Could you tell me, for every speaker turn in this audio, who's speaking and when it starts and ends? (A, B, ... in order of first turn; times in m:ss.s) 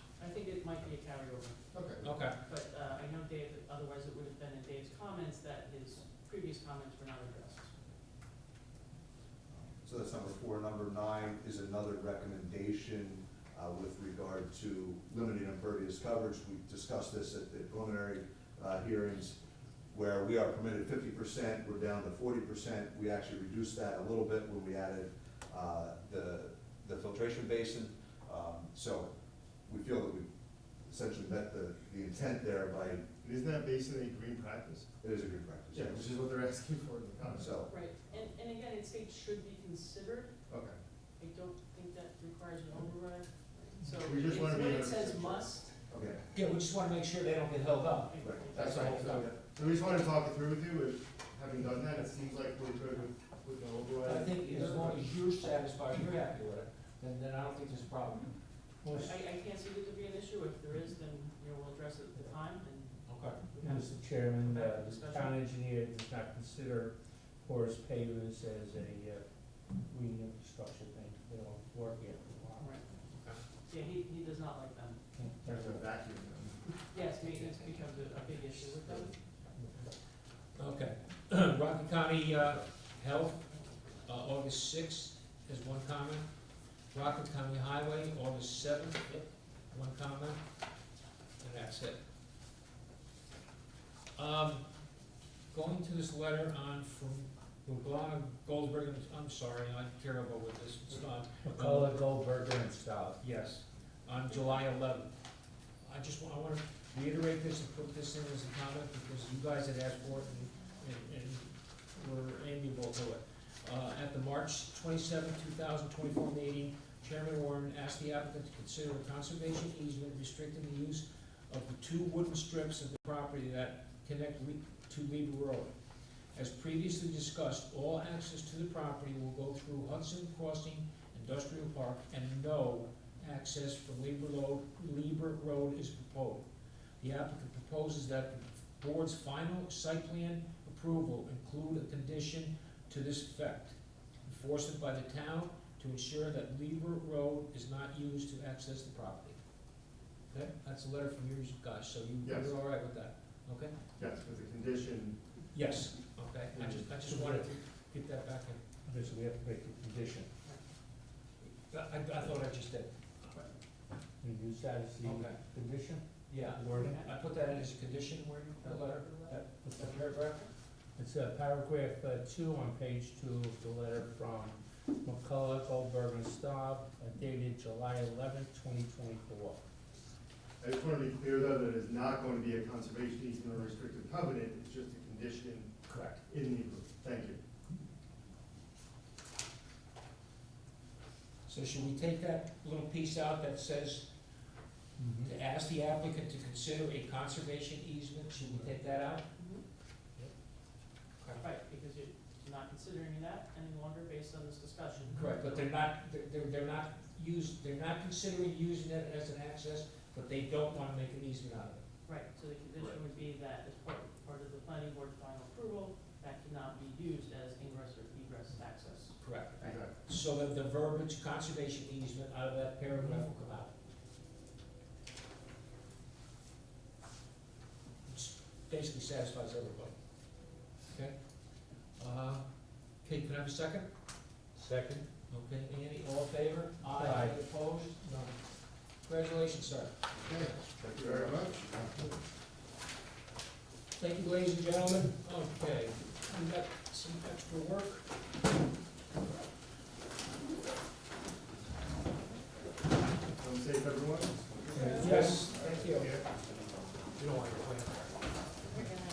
0:00.2-0:01.6 A
0:01.7-0:02.1 B
0:02.0-0:02.4 C
0:02.4-0:07.8 A
0:09.5-0:29.1 D
0:29.6-0:33.2 D
0:33.1-0:34.9 B
0:35.0-0:36.2 D
0:35.7-0:37.5 B
0:37.3-0:37.8 D
0:37.7-0:40.3 A
0:40.5-0:40.8 B
0:41.2-0:45.8 A
0:44.0-0:46.2 B
0:46.3-0:49.3 C
0:48.1-0:49.3 A
0:48.2-0:48.5 D
0:48.5-0:55.0 B
0:54.0-0:58.3 C
0:58.8-0:59.2 E
0:58.9-1:05.4 A
1:03.1-1:03.4 C
1:03.6-1:09.2 E
1:09.8-1:12.8 E
1:12.6-1:12.9 A
1:13.1-1:13.4 C
1:13.7-1:15.0 A
1:15.2-1:15.8 E
1:15.5-1:16.6 B
1:16.9-1:19.1 A
1:17.2-1:18.7 C
1:20.6-1:26.2 C
1:26.9-1:30.4 C
1:31.4-1:32.0 C
1:34.2-1:34.6 C
1:35.5-1:42.0 C
1:41.4-1:43.2 E
1:43.2-1:45.1 C
1:45.8-2:05.7 C
2:06.4-2:16.4 C
2:17.0-2:29.4 C
2:30.3-2:33.8 C
2:32.2-2:32.5 B
2:34.0-2:35.2 B
2:35.5-2:38.6 C
2:36.6-2:36.9 B
2:36.9-2:37.5 E
2:38.9-2:40.3 E
2:41.4-2:43.4 C
2:44.2-2:47.0 E
2:45.0-2:45.4 C
2:46.3-2:50.4 C
2:46.7-2:47.2 A
2:48.6-2:49.4 A
2:49.6-2:50.0 E
2:51.0-2:59.6 E
3:00.6-3:07.4 B
3:05.9-3:06.2 C
3:11.5-3:14.1 C
3:15.0-3:15.3 E
3:15.2-3:19.3 C
3:19.4-3:19.6 A
3:21.2-3:21.4 C
3:21.4-3:25.7 A
3:25.1-3:31.8 C
3:32.1-3:39.8 A
3:39.2-3:43.7 C
3:39.6-3:39.9 B
3:48.1-3:49.9 C
3:50.9-3:51.2 C
3:52.0-3:52.4 C
3:53.0-3:53.9 C
3:54.6-3:55.1 E
3:55.3-3:58.4 C
3:56.9-3:57.4 E
3:59.0-3:59.9 C
4:00.2-4:01.6 B
4:00.7-4:01.8 D
4:04.0-4:08.1 C
4:13.4-4:15.4 B
4:14.7-4:16.2 C
4:14.7-4:15.5 E
4:17.2-4:18.1 C